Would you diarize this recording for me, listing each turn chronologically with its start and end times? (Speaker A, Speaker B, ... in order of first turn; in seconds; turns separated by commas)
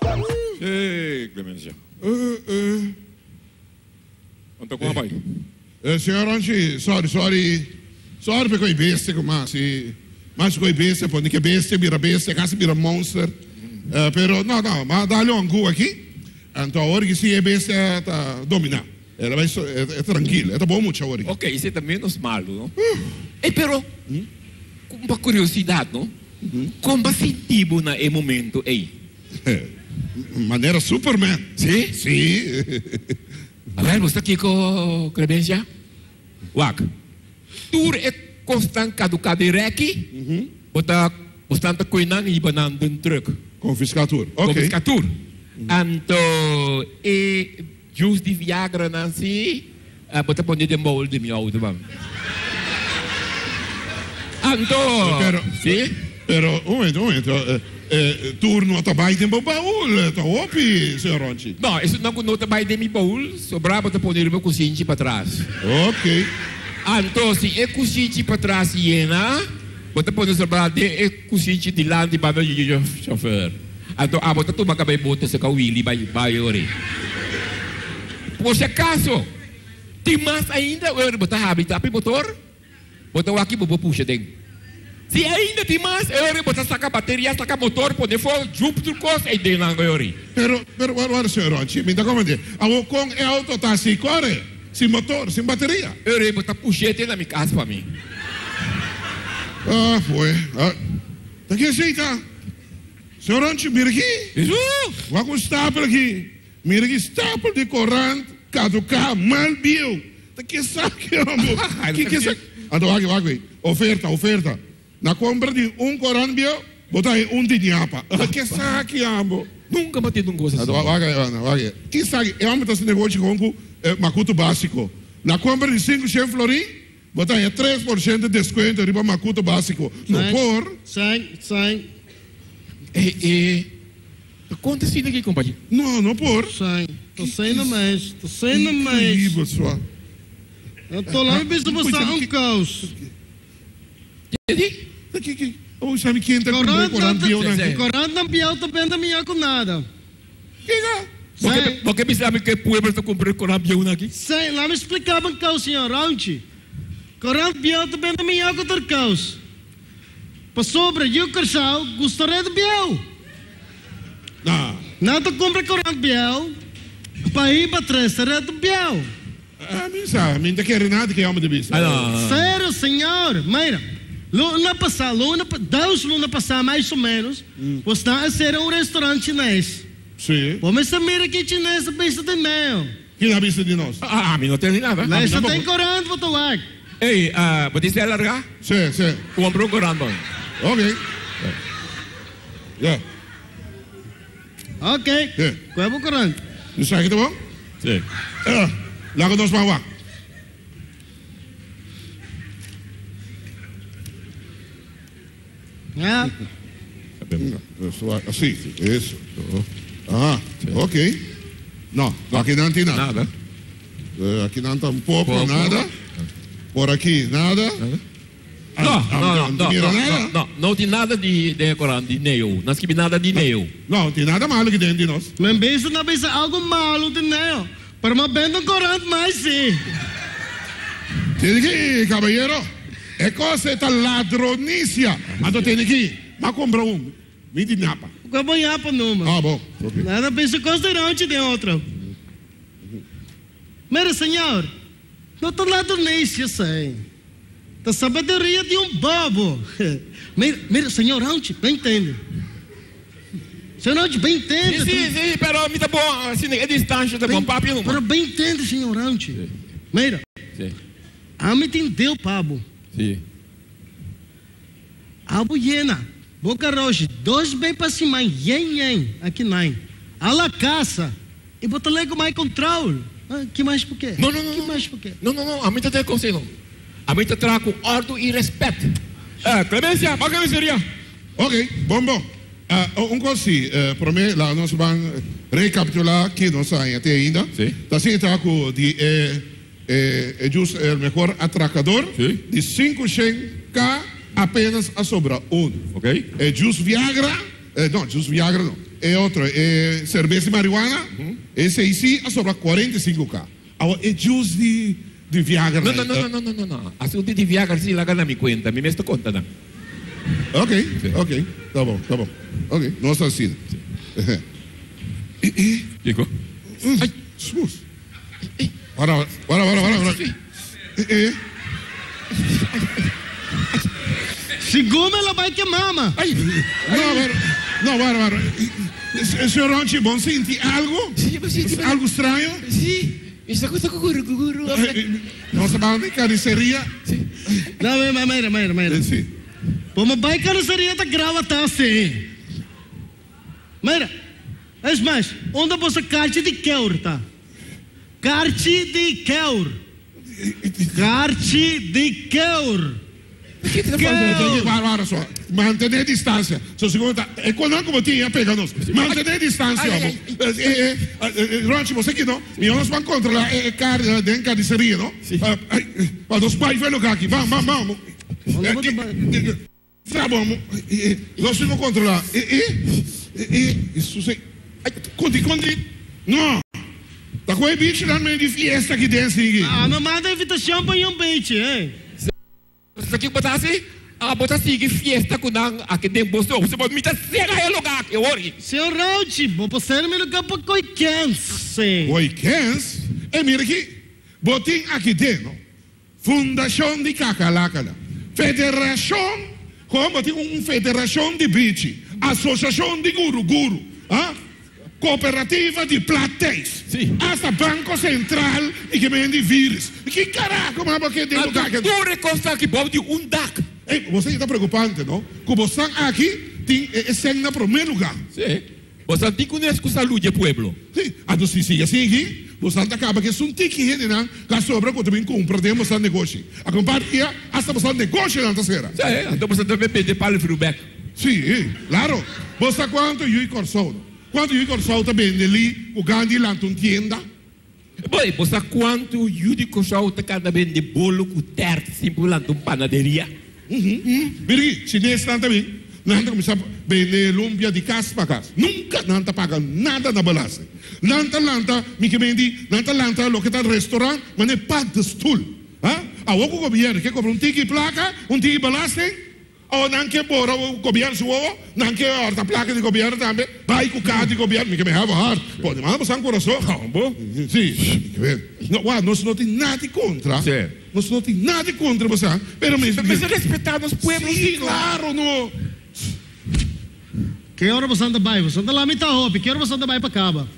Speaker A: 0.6-1.8, Speaker B: 2.0-2.9, Speaker A: 4.6-5.2, Speaker B: 5.8-13.4, Speaker B: 13.9-21.3, Speaker A: 21.2-22.7, Speaker B: 22.8-23.1, Speaker A: 23.4-23.9, Speaker A: 24.9-26.1, Speaker A: 26.8-28.9, Speaker B: 29.4-33.2, Speaker A: 31.6-31.9, Speaker A: 33.8-35.7, Speaker A: 36.5-36.9, Speaker A: 37.7-40.1, Speaker B: 40.1-40.5, Speaker A: 40.7-43.4, Speaker B: 43.6-44.7, Speaker A: 44.4-45.1, Speaker A: 45.7-51.8, Speaker A: 54.4-56.0, Speaker B: 55.0-61.6, Speaker A: 61.6-65.5, Speaker B: 65.6-66.3, Speaker A: 66.8-76.7, Speaker A: 78.4-79.3, Speaker A: 80.0-82.4, Speaker A: 83.1-84.3, Speaker A: 85.1-90.2, Speaker B: 90.3-96.0, Speaker A: 96.0-97.9, Speaker B: 99.6-100.8, Speaker B: 101.5-102.2, Speaker B: 103.2-104.3, Speaker A: 104.4-105.0, Speaker B: 105.1-119.5, Speaker A: 111.4-112.4, Speaker A: 118.2-118.8, Speaker A: 119.7-120.9, Speaker B: 120.6-130.8, Speaker C: 130.1-131.9, Speaker A: 132.9-133.7, Speaker A: 134.5-135.6, Speaker B: 135.7-136.6, Speaker C: 136.5-139.3, Speaker B: 137.2-137.8, Speaker B: 138.5-139.8, Speaker C: 140.9-142.9, Speaker B: 141.1-142.3, Speaker A: 144.3-144.8, Speaker B: 145.1-147.8, Speaker C: 146.5-149.9, Speaker A: 147.4-147.8, Speaker B: 150.7-151.1, Speaker C: 151.4-151.8, Speaker A: 151.4-154.1, Speaker C: 154.1-156.4, Speaker C: 157.2-159.4, Speaker C: 160.6-163.0, Speaker B: 164.4-164.8, Speaker C: 165.0-166.6, Speaker C: 167.2-169.1, Speaker B: 169.6-172.1, Speaker A: 171.7-172.5, Speaker C: 172.2-179.8, Speaker B: 180.2-180.6, Speaker C: 180.6-182.9, Speaker B: 183.2-184.0, Speaker A: 184.0-185.2, Speaker C: 185.0-186.6, Speaker B: 185.1-185.7, Speaker A: 187.0-188.5, Speaker B: 188.6-189.2, Speaker A: 189.3-190.2, Speaker B: 190.6-191.0, Speaker C: 194.8-196.4, Speaker B: 196.8-197.4, Speaker B: 198.4-199.8, Speaker C: 206.0-206.3, Speaker A: 207.2-207.5, Speaker B: 207.4-209.2, Speaker A: 209.4-209.7, Speaker B: 210.1-211.2, Speaker B: 211.9-213.1, Speaker A: 212.3-213.3, Speaker B: 214.2-215.9, Speaker A: 215.3-215.8, Speaker B: 216.7-217.8, Speaker B: 218.8-220.3, Speaker A: 218.8-223.7, Speaker B: 223.3-225.3, Speaker C: 225.4-229.8, Speaker B: 231.4-232.7, Speaker B: 233.2-238.1, Speaker C: 238.3-239.4, Speaker B: 239.2-240.1, Speaker C: 240.0-241.8, Speaker C: 243.9-244.7, Speaker C: 245.4-247.0, Speaker C: 247.8-252.2, Speaker C: 253.8-255.1, Speaker A: 254.7-258.0, Speaker C: 257.3-259.4, Speaker C: 259.9-260.2, Speaker C: 261.4-262.6, Speaker A: 262.9-263.2, Speaker C: 265.3-275.1, Speaker A: 274.2-276.5, Speaker A: 277.1-280.8, Speaker B: 281.4-295.8, Speaker A: 292.2-292.4, Speaker A: 295.9-296.2, Speaker B: 296.4-306.3, Speaker A: 305.8-309.5, Speaker B: 310.5-313.6, Speaker B: 314.2-314.4, Speaker B: 315.4-315.9, Speaker A: 316.0-316.3, Speaker B: 316.8-317.8, Speaker B: 318.9-320.2, Speaker A: 319.8-320.4, Speaker B: 321.0-321.4, Speaker A: 322.5-323.1, Speaker C: 324.6-326.2, Speaker A: 326.2-327.2, Speaker B: 326.4-332.6, Speaker A: 331.2-332.0, Speaker A: 332.6-335.0, Speaker B: 334.7-336.9, Speaker C: 337.8-339.0, Speaker B: 338.9-339.3, Speaker C: 339.9-342.3, Speaker C: 343.8-344.1, Speaker C: 344.8-347.2, Speaker C: 348.2-349.8, Speaker B: 350.3-351.1, Speaker C: 350.9-353.0, Speaker A: 353.6-354.7, Speaker C: 354.0-354.7, Speaker B: 354.1-374.4, Speaker A: 358.9-359.2, Speaker A: 359.7-360.4, Speaker C: 368.6-369.2, Speaker B: 375.0-376.6, Speaker B: 377.5-379.8, Speaker C: 379.6-381.9, Speaker A: 383.0-388.6, Speaker C: 388.6-392.1, Speaker B: 392.1-395.6, Speaker B: 396.2-404.4, Speaker B: 405.0-411.9, Speaker A: 406.9-407.2, Speaker A: 411.3-413.7, Speaker B: 413.9-418.2, Speaker A: 418.3-420.8, Speaker B: 420.9-429.0, Speaker A: 429.0-430.9, Speaker B: 431.2-437.2, Speaker A: 438.0-443.3, Speaker B: 443.7-473.3, Speaker A: 444.1-444.3, Speaker A: 466.7-467.2, Speaker A: 470.4-470.8, Speaker A: 472.8-474.9, Speaker B: 474.0-475.5, Speaker C: 477.6-480.5